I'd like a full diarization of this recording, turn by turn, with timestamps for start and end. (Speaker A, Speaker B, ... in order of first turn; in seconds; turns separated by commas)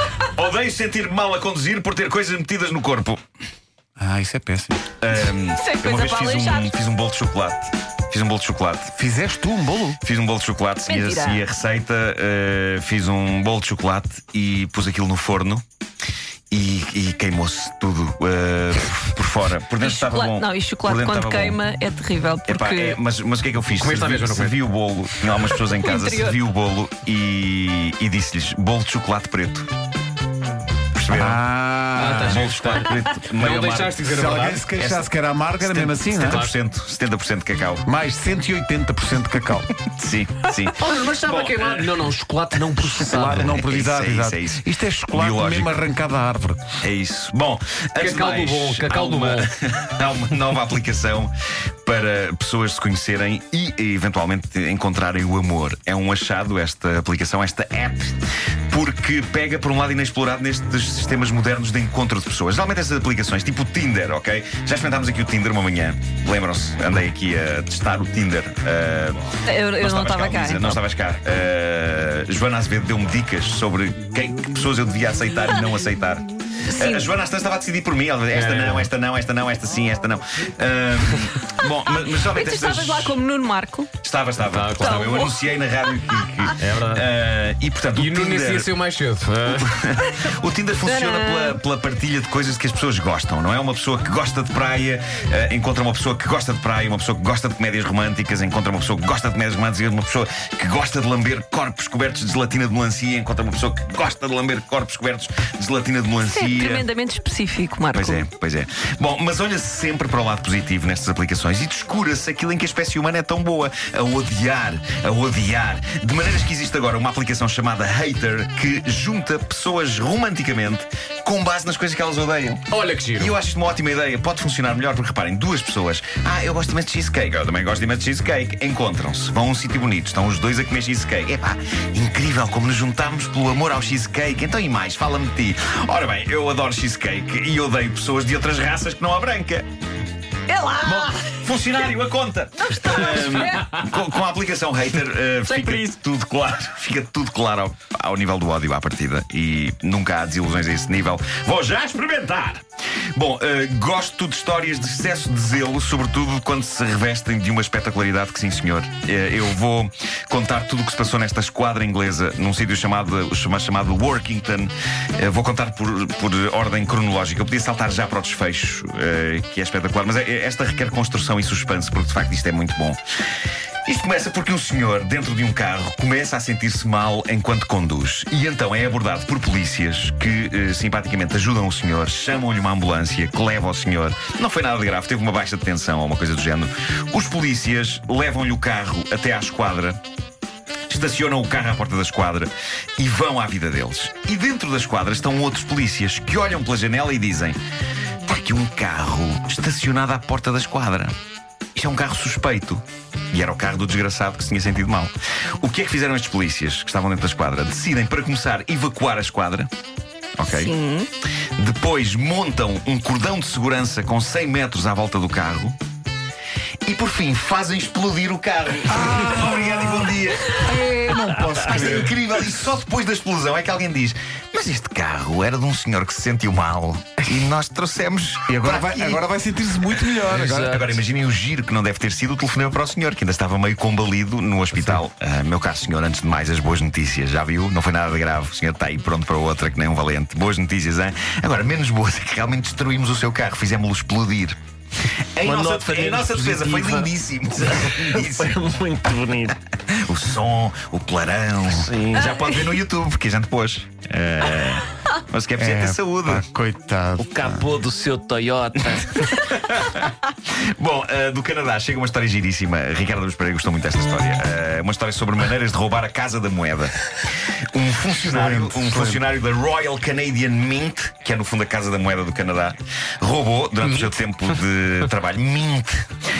Speaker A: 0.3-3.2, Speaker B: 4.0-4.8, Speaker A: 5.0-8.9, Speaker C: 5.5-6.7, Speaker B: 8.9-10.0, Speaker A: 10.0-15.6, Speaker C: 10.8-11.4, Speaker A: 16.5-21.6, Speaker C: 19.8-23.0, Speaker A: 22.4-29.7, Speaker D: 23.8-24.5, Speaker C: 25.8-26.4, Speaker A: 30.9-31.4, Speaker B: 31.1-32.4, Speaker D: 31.9-34.6, Speaker A: 32.2-34.0, Speaker B: 34.1-36.4, Speaker A: 34.8-37.9, Speaker D: 36.2-36.5, Speaker B: 37.8-39.7, Speaker A: 39.8-42.0, Speaker D: 40.8-43.6, Speaker B: 42.9-46.6, Speaker A: 43.3-45.8, Speaker A: 46.8-51.3, Speaker D: 48.0-49.5, Speaker A: 51.8-69.2, Speaker C: 69.5-70.8, Speaker A: 69.8-83.2, Speaker C: 76.7-77.1, Speaker D: 78.3-78.9, Speaker C: 82.0-83.9, Speaker A: 84.0-88.7, Speaker D: 84.4-85.0, Speaker C: 84.8-85.4, Speaker D: 86.6-87.1, Speaker D: 87.9-89.8, Speaker A: 89.5-106.9, Speaker C: 90.8-91.6, Speaker C: 106.2-108.3, Speaker A: 107.9-139.7, Speaker D: 122.7-123.3, Speaker C: 140.5-141.3, Speaker A: 140.8-152.6, Speaker C: 142.6-143.9, Speaker C: 145.5-145.8, Speaker A: 153.1-173.0, Speaker A: 173.8-190.0, Speaker A: 190.9-197.6, Speaker A: 198.2-201.1, Speaker A: 201.7-209.7, Speaker A: 210.3-210.7, Speaker C: 210.4-211.1, Speaker A: 211.6-215.8, Speaker A: 216.8-220.9, Speaker B: 218.9-222.1, Speaker A: 221.4-229.2, Speaker B: 228.5-230.8, Speaker E: 230.3-230.9, Speaker A: 230.7-244.6, Speaker A: 245.3-248.7, Speaker E: 245.4-249.6, Speaker A: 250.0-256.5, Speaker E: 251.7-252.6, Speaker B: 255.6-257.7, Speaker E: 257.2-259.3, Speaker A: 259.3-260.1, Speaker A: 260.8-276.0, Speaker B: 268.2-269.2